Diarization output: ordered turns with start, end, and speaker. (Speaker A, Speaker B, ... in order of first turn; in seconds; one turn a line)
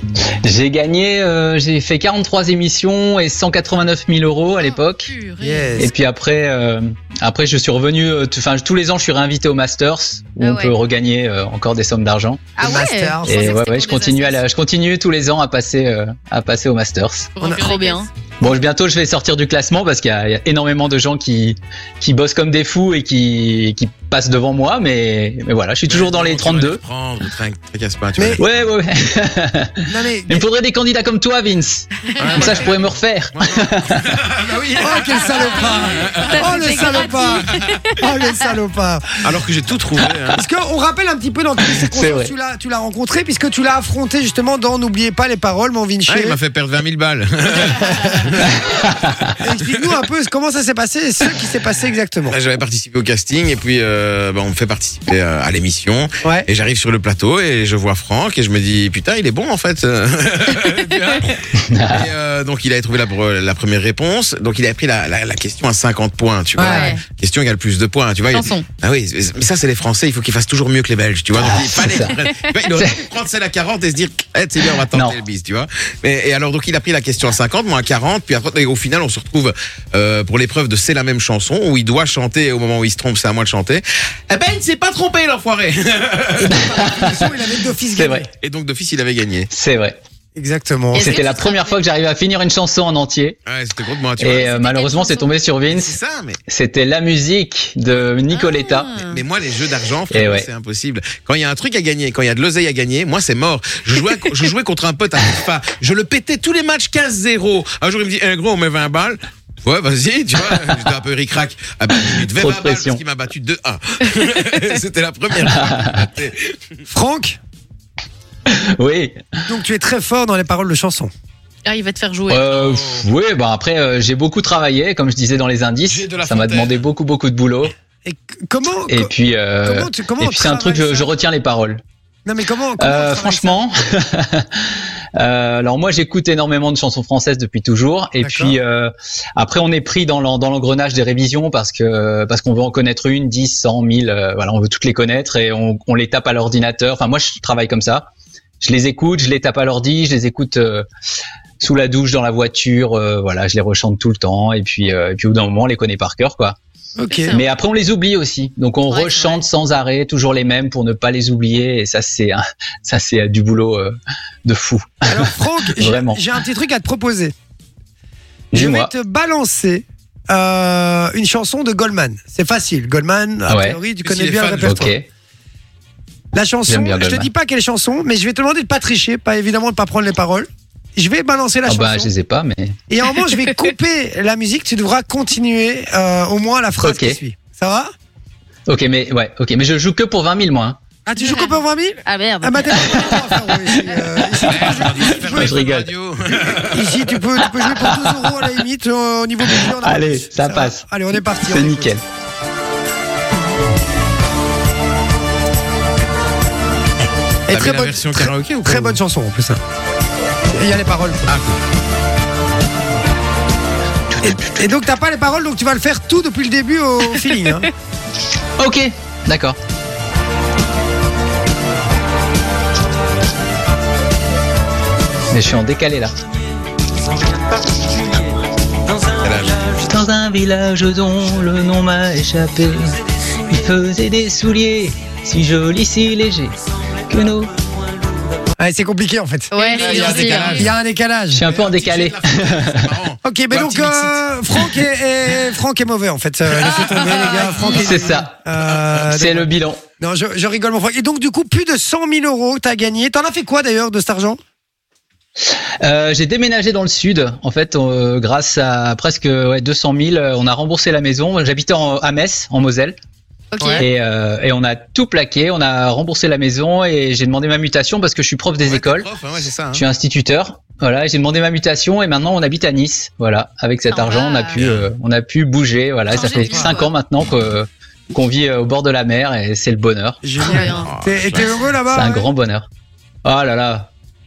Speaker A: 0.4-5.1
Speaker B: 4.6-5.8
Speaker C: 5.4-5.9
Speaker A: 5.8-12.4
Speaker D: 10.4-10.8
Speaker D: 12.6-13.6
Speaker C: 12.6-13.6
Speaker A: 13.2-17.3
Speaker B: 13.3-14.4
Speaker B: 17.4-18.1
Speaker D: 17.5-18.1
Speaker A: 18.4-26.8
Speaker E: 25.9-28.4
Speaker C: 28.2-28.4
Speaker A: 28.4-34.1
Speaker C: 29.9-30.4
Speaker E: 32.2-37.8
Speaker C: 34.8-39.2
Speaker D: 35.4-38.0
Speaker E: 39.2-40.5
Speaker C: 40.3-46.4
Speaker A: 41.7-42.3
Speaker E: 46.1-48.6
Speaker C: 47.9-48.1
Speaker A: 48.9-49.2
Speaker C: 49.4-52.4
Speaker E: 52.3-87.2
Speaker C: 56.2-56.5
Speaker A: 61.6-62.1
Speaker C: 66.6-67.0
Speaker D: 66.6-67.0
Speaker D: 68.3-68.7
Speaker A: 71.3-72.2
Speaker A: 72.7-73.0
Speaker A: 74.9-75.2
Speaker C: 86.4-88.3
Speaker A: 86.5-87.3
Speaker A: 87.9-88.3
Speaker E: 88.4-89.5
Speaker A: 89.5-90.0
Speaker C: 90.4-91.1
Speaker D: 90.9-91.8
Speaker A: 91.0-93.4
Speaker E: 93.5-94.5
Speaker A: 94.2-96.0
Speaker D: 94.3-95.3
Speaker E: 95.7-96.4
Speaker A: 96.5-99.0
Speaker D: 98.3-99.2
Speaker E: 99.0-116.6
Speaker A: 100.1-100.5
Speaker A: 112.0-113.0
Speaker A: 115.4-116.1
Speaker C: 116.9-117.4
Speaker A: 118.5-119.4
Speaker C: 119.5-121.1
Speaker B: 121.7-122.5
Speaker A: 122.3-127.7
Speaker E: 122.5-123.1
Speaker E: 125.9-126.9
Speaker C: 128.1-129.1
Speaker A: 128.9-131.8
Speaker C: 129.6-131.1
Speaker C: 132.3-133.7
Speaker A: 132.8-148.1
Speaker C: 138.2-138.6
Speaker A: 148.6-150.9
Speaker A: 151.6-156.6
Speaker C: 157.0-157.4
Speaker B: 157.1-157.5
Speaker A: 157.3-166.2
Speaker B: 158.9-159.4
Speaker C: 165.1-167.3
Speaker A: 168.5-168.9
Speaker C: 168.5-174.9
Speaker A: 173.5-173.8
Speaker E: 174.0-174.9
Speaker A: 174.6-175.1
Speaker C: 176.3-182.1
Speaker A: 176.7-177.3
Speaker A: 181.7-182.8
Speaker C: 182.9-187.9
Speaker A: 186.8-187.2
Speaker A: 188.7-190.8
Speaker C: 191.1-195.6
Speaker D: 192.1-193.2
Speaker A: 193.4-193.8
Speaker A: 194.3-195.9
Speaker E: 194.4-197.1
Speaker C: 196.7-201.9
Speaker A: 197.5-198.5
Speaker A: 199.5-202.0
Speaker C: 207.5-209.6
Speaker E: 207.5-209.0
Speaker C: 210.5-211.3
Speaker E: 211.3-211.6
Speaker C: 214.2-217.7
Speaker A: 218.6-219.6
Speaker A: 225.3-226.1
Speaker A: 228.9-236.6
Speaker E: 229.2-229.7
Speaker A: 237.1-237.5
Speaker C: 238.6-239.5
Speaker D: 239.5-240.6
Speaker B: 239.5-240.7
Speaker E: 239.7-240.7
Speaker C: 240.4-241.4
Speaker A: 241.3-243.0
Speaker E: 241.4-244.7
Speaker C: 243.2-254.4
Speaker E: 246.6-247.5
Speaker A: 247.3-248.3
Speaker A: 249.1-249.8
Speaker A: 255.4-263.0
Speaker D: 263.6-263.9
Speaker A: 263.8-269.1
Speaker E: 268.6-269.9
Speaker A: 269.7-280.6
Speaker D: 273.9-274.6
Speaker E: 274.6-274.9
Speaker D: 276.1-276.9
Speaker C: 276.1-276.8
Speaker C: 280.2-282.3
Speaker D: 280.4-280.9
Speaker E: 280.8-281.6
Speaker A: 281.9-282.7
Speaker A: 283.2-283.9